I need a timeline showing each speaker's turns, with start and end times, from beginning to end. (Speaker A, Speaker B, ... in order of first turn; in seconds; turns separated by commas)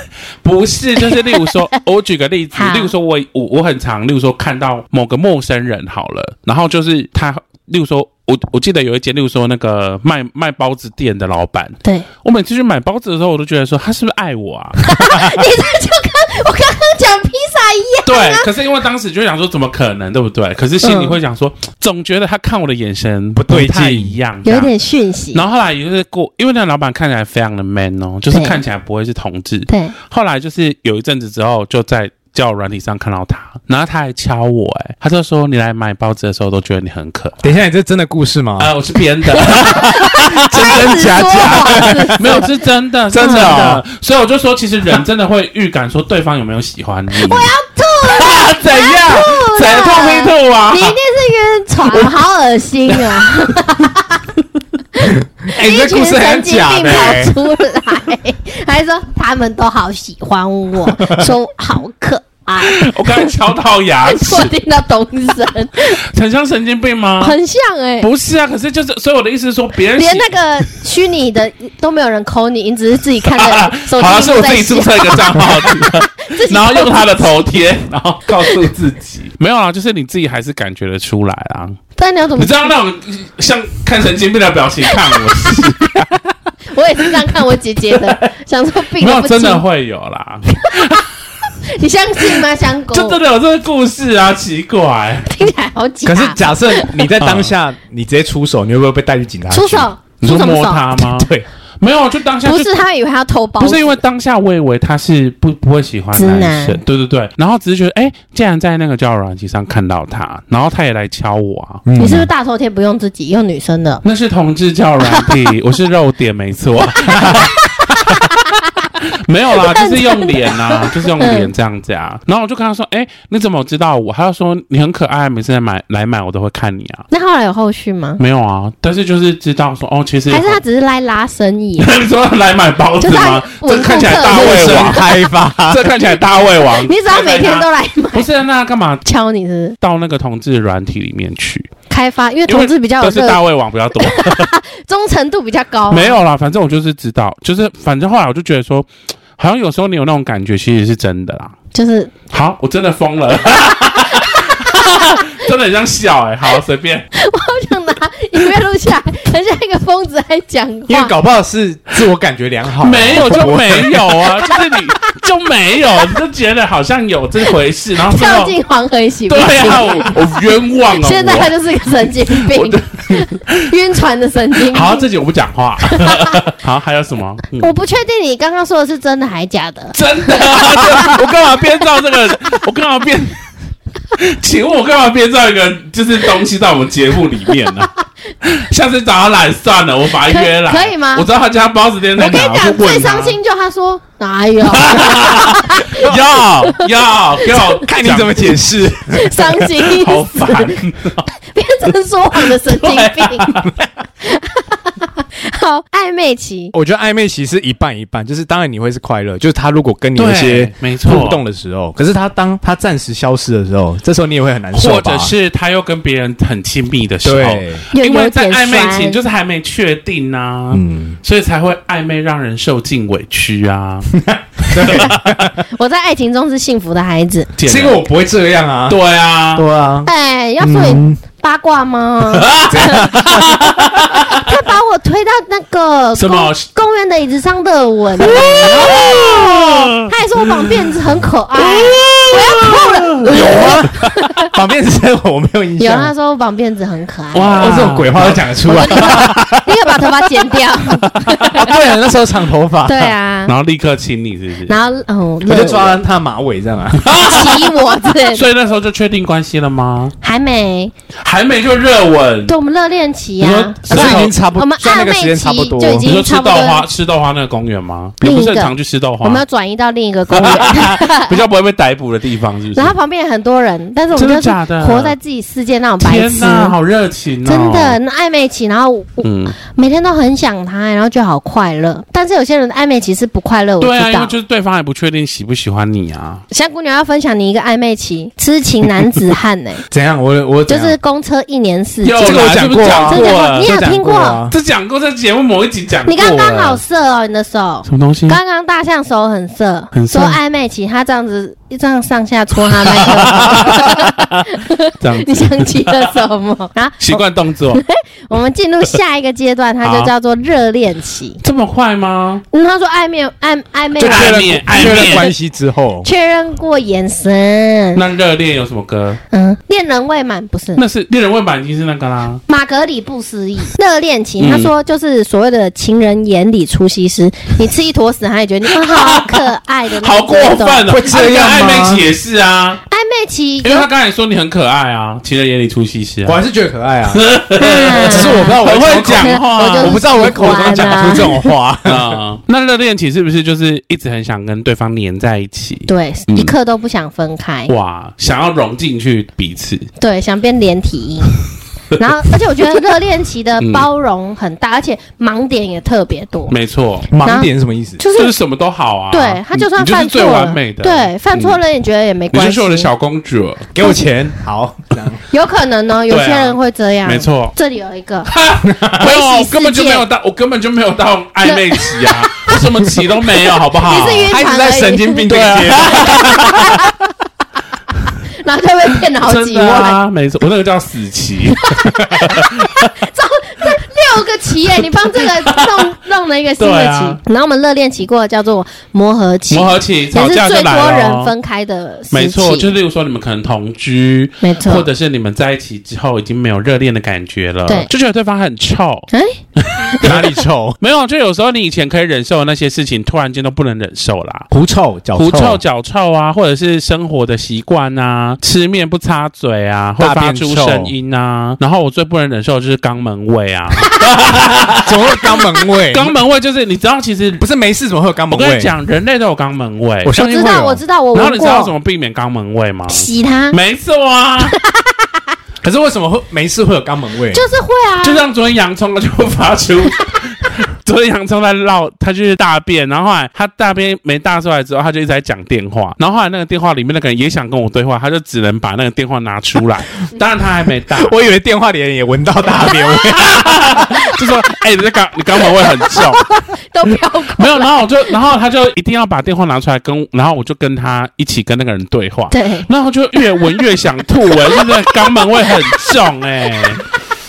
Speaker A: 0.4-14.8, Speaker B: 1.0-1.6, Speaker B: 2.5-2.9, Speaker B: 14.8-18.5, Speaker A: 18.1-24.7, Speaker B: 20.8-21.1, Speaker C: 23.3-24.1, Speaker B: 24.4-25.4, Speaker A: 25.3-37.4, Speaker B: 28.3-28.6, Speaker B: 29.7-29.9, Speaker C: 37.4-38.7, Speaker A: 38.6-47.5, Speaker C: 39.3-42.5, Speaker B: 39.4-42.5, Speaker C: 43.1-43.8, Speaker B: 43.2-43.5, Speaker B: 47.1-54.3, Speaker A: 48.0-51.0, Speaker A: 51.9-52.2, Speaker A: 52.9-53.5, Speaker B: 54.9-63.3, Speaker C: 55.0-57.4, Speaker A: 62.6-64.5, Speaker B: 64.0-66.0, Speaker A: 65.8-67.4, Speaker B: 67.2-68.1, Speaker A: 68.0-70.8, Speaker B: 69.9-77.3, Speaker A: 73.2-81.8, Speaker B: 78.3-78.6, Speaker B: 82.0-82.7, Speaker A: 82.4-86.2, Speaker B: 84.9-85.6, Speaker B: 86.7-89.6, Speaker A: 89.0-91.5, Speaker B: 90.5-91.0, Speaker B: 91.6-93.2, Speaker A: 92.3-95.3, Speaker B: 95.3-97.1, Speaker C: 96.0-99.9, Speaker A: 97.2-97.5, Speaker B: 99.5-101.0, Speaker A: 100.2-102.8, Speaker C: 101.1-101.5, Speaker B: 102.4-104.0, Speaker A: 103.6-111.8, Speaker B: 106.1-106.8, Speaker C: 111.8-112.3, Speaker B: 112.0-114.0, Speaker A: 114.0-127.0, Speaker B: 115.0-115.4, Speaker C: 117.1-117.4, Speaker B: 117.3-118.9, Speaker B: 119.5-121.5, Speaker B: 127.1-128.2, Speaker A: 128.2-130.6, Speaker B: 130.3-131.9, Speaker A: 131.8-139.0, Speaker B: 133.0-135.1, Speaker C: 134.2-135.9, Speaker B: 136.6-138.3, Speaker B: 139.0-139.8, Speaker A: 139.8-141.7, Speaker B: 141.9-143.4, Speaker A: 142.5-144.5, Speaker B: 143.9-146.2, Speaker A: 145.9-151.6, Speaker B: 151.7-152.1, Speaker A: 152.3-157.1, Speaker B: 153.7-155.4, Speaker B: 157.1-161.1, Speaker C: 160.9-164.1, Speaker A: 162.8-168.6, Speaker B: 164.4-164.9, Speaker B: 167.4-175.1, Speaker A: 169.3-171.5, Speaker A: 172.2-173.7, Speaker A: 174.6-177.7, Speaker B: 175.8-176.4, Speaker B: 177.6-181.6, Speaker A: 179.9-183.4, Speaker A: 184.1-193.4, Speaker B: 190.3-191.3, Speaker B: 192.2-196.8, Speaker A: 194.7-198.7, Speaker B: 197.4-197.8, Speaker C: 197.8-199.5, Speaker B: 199.1-200.7, Speaker A: 199.5-201.3, Speaker B: 201.4-203.6, Speaker A: 202.4-203.7, Speaker B: 204.2-206.7, Speaker C: 206.7-215.3, Speaker A: 210.2-211.4, Speaker A: 214.7-224.1, Speaker C: 217.2-217.8, Speaker B: 217.9-219.2, Speaker C: 220.7-221.2, Speaker C: 224.1-225.6, Speaker A: 224.7-225.2, Speaker B: 224.8-225.2, Speaker B: 225.7-227.5, Speaker A: 227.6-228.0, Speaker C: 227.7-229.0, Speaker A: 228.9-229.7, Speaker C: 229.5-230.1, Speaker B: 230.0-233.4, Speaker C: 230.6-231.2, Speaker A: 232.3-234.4, Speaker C: 232.7-234.0, Speaker B: 234.2-244.5, Speaker A: 236.2-236.7, Speaker A: 238.2-240.7, Speaker A: 241.6-243.9, Speaker C: 243.2-246.1, Speaker B: 245.8-247.8, Speaker A: 247.3-249.1, Speaker C: 247.6-249.7, Speaker B: 248.6-251.8, Speaker C: 251.2-253.1, Speaker B: 252.8-253.5, Speaker A: 253.5-254.7, Speaker B: 254.7-256.0, Speaker C: 255.4-257.1, Speaker A: 257.0-260.1, Speaker B: 257.1-258.5, Speaker B: 260.2-260.9, Speaker A: 261.2-262.5, Speaker B: 262.5-266.8, Speaker A: 263.4-264.3, Speaker C: 263.9-266.1, Speaker A: 266.0-269.4, Speaker B: 268.2-271.4, Speaker A: 270.3-272.9, Speaker B: 272.7-276.7, Speaker A: 274.1-275.1, Speaker A: 276.0-278.0, Speaker B: 277.4-284.3, Speaker A: 279.2-279.6, Speaker A: 283.8-286.4, Speaker B: 286.5-289.8, Speaker C: 289.9-290.9, Speaker B: 290.7-292.5, Speaker A: 292.0-293.7, Speaker C: 292.2-294.5, Speaker B: 293.1-294.4, Speaker A: 294.5-296.8, Speaker B: 296.1-311.4, Speaker A: 297.9-298.4, Speaker A: 299.9-300.4, Speaker A: 302.9-306.1, Speaker A: 307.0-307.8, Speaker A: 309.8-310.1, Speaker A: 311.4-312.4, Speaker B: 312.5-315.3, Speaker C: 313.9-316.1, Speaker A: 314.0-315.3, Speaker B: 316.0-318.0, Speaker A: 317.9-319.2, Speaker B: 319.3-320.8, Speaker A: 320.7-322.4, Speaker B: 322.5-330.9, Speaker A: 324.4-324.7, Speaker A: 328.7-332.8, Speaker C: 330.9-332.1, Speaker B: 332.9-333.9, Speaker A: 333.6-336.4, Speaker C: 336.2-337.3, Speaker A: 337.1-340.0, Speaker B: 337.6-338.6, Speaker C: 337.9-342.2, Speaker B: 339.1-341.5, Speaker A: 341.8-346.5, Speaker B: 345.9-347.7, Speaker A: 347.7-349.9, Speaker B: 350.0-351.4, Speaker B: 351.9-356.5, Speaker A: 353.6-353.9, Speaker A: 356.5-357.1, Speaker C: 357.1-358.0, Speaker B: 357.2-358.3, Speaker A: 358.1-361.6, Speaker B: 359.1-362.9, Speaker A: 362.3-363.7, Speaker C: 363.7-365.2, Speaker B: 365.3-368.3, Speaker A: 366.1-367.5, Speaker A: 368.2-374.4, Speaker C: 368.6-369.1, Speaker B: 369.0-370.0, Speaker B: 371.4-372.6, Speaker B: 373.7-375.3, Speaker C: 373.9-376.8, Speaker A: 375.3-376.8, Speaker B: 375.8-377.0, Speaker B: 378.3-380.0, Speaker A: 379.2-382.9, Speaker B: 381.5-392.7, Speaker A: 384.9-385.9, Speaker A: 386.6-387.2, Speaker A: 389.5-391.3, Speaker A: 392.1-400.2, Speaker B: 394.4-394.9, Speaker B: 399.1-400.1, Speaker C: 400.0-400.8, Speaker A: 400.8-404.5, Speaker C: 404.5-405.6, Speaker A: 405.1-417.4, Speaker C: 410.0-410.9, Speaker C: 414.8-416.1, Speaker C: 417.4-418.7, Speaker A: 418.3-420.1, Speaker C: 420.0-420.8, Speaker B: 420.1-421.7, Speaker A: 421.1-424.6, Speaker B: 422.9-423.6, Speaker B: 424.4-425.2, Speaker C: 425.6-427.4, Speaker B: 427.3-428.2, Speaker A: 428.0-441.1, Speaker C: 440.9-443.9, Speaker A: 442.8-446.3, Speaker B: 443.9-444.2, Speaker B: 446.5-447.7, Speaker A: 447.3-456.8, Speaker B: 452.3-452.7, Speaker B: 454.4-455.9